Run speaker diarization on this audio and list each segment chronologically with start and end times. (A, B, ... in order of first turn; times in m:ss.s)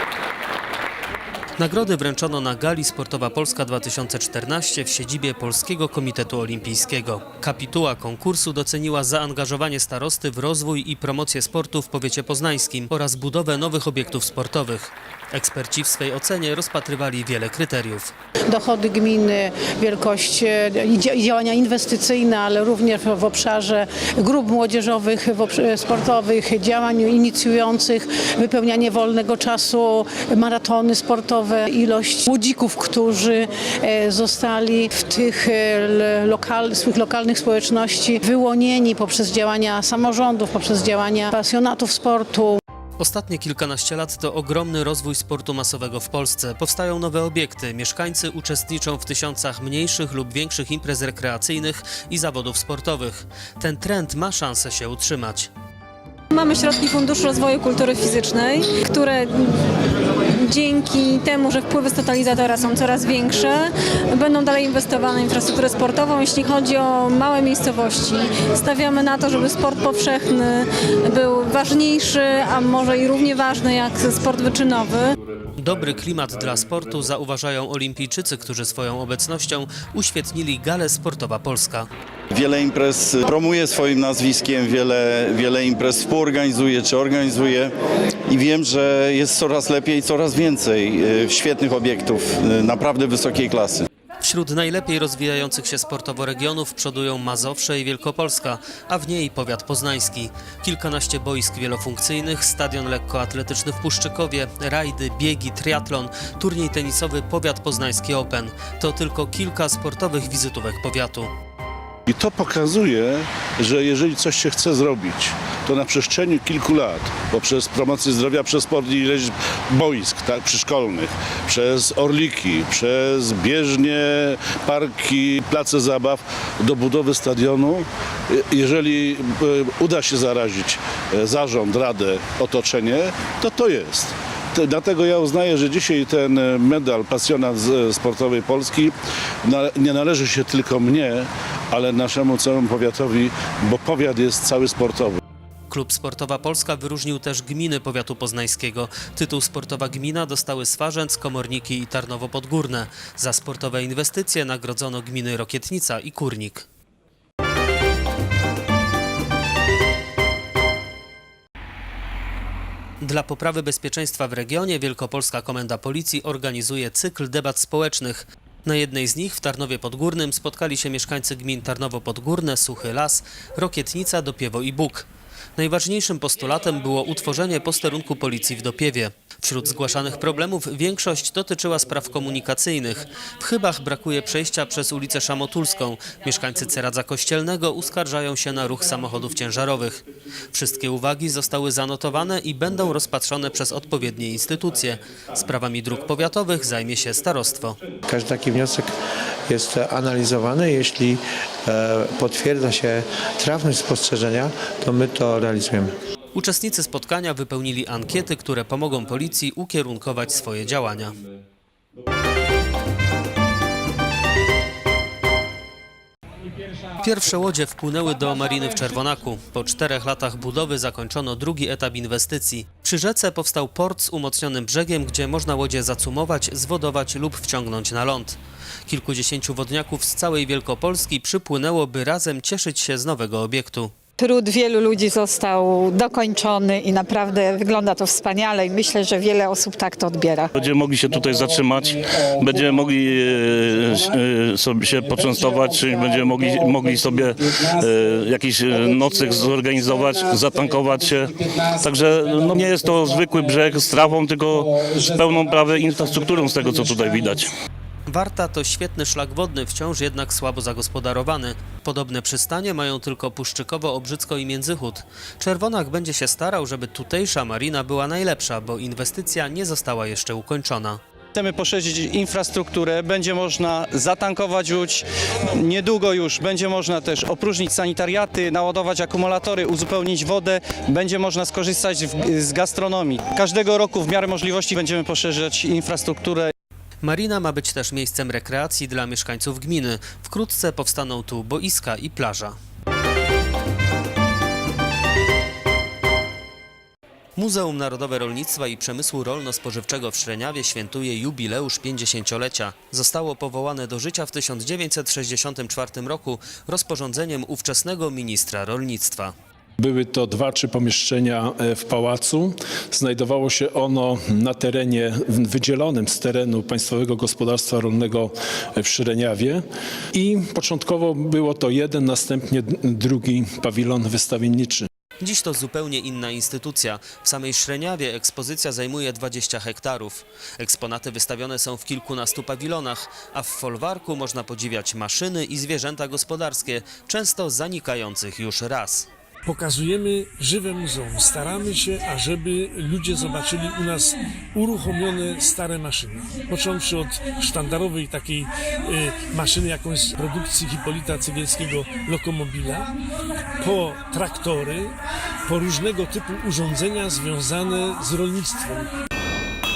0:01.6-0:18.1 A
0:18.5-0:42.5 B
0:43.0-0:55.5 A
0:56.3-0:59.6 C
1:00.4-1:15.0 C
1:15.6-1:21.9 A
1:22.3-1:27.7 D
1:28.3-1:33.9 D
1:34.2-1:51.3 A
1:52.1-2:18.9 E
2:19.4-2:25.2 E
2:25.7-2:36.7 A
2:43.0-3:17.8 A
3:18.1-3:18.9 F
3:19.5-3:25.9 F
3:26.3-3:31.2 A
3:37.0-3:53.9 A
3:54.2-4:00.5 G
4:00.5-4:17.5 H
4:18.1-4:31.0 A
4:31.3-4:46.5 I
4:47.0-4:52.6 A
4:57.4-5:09.3 A
5:09.8-5:19.6 J
5:20.1-5:24.9 J
5:25.2-5:39.1 A
5:39.4-5:52.9 K
5:53.6-5:58.9 K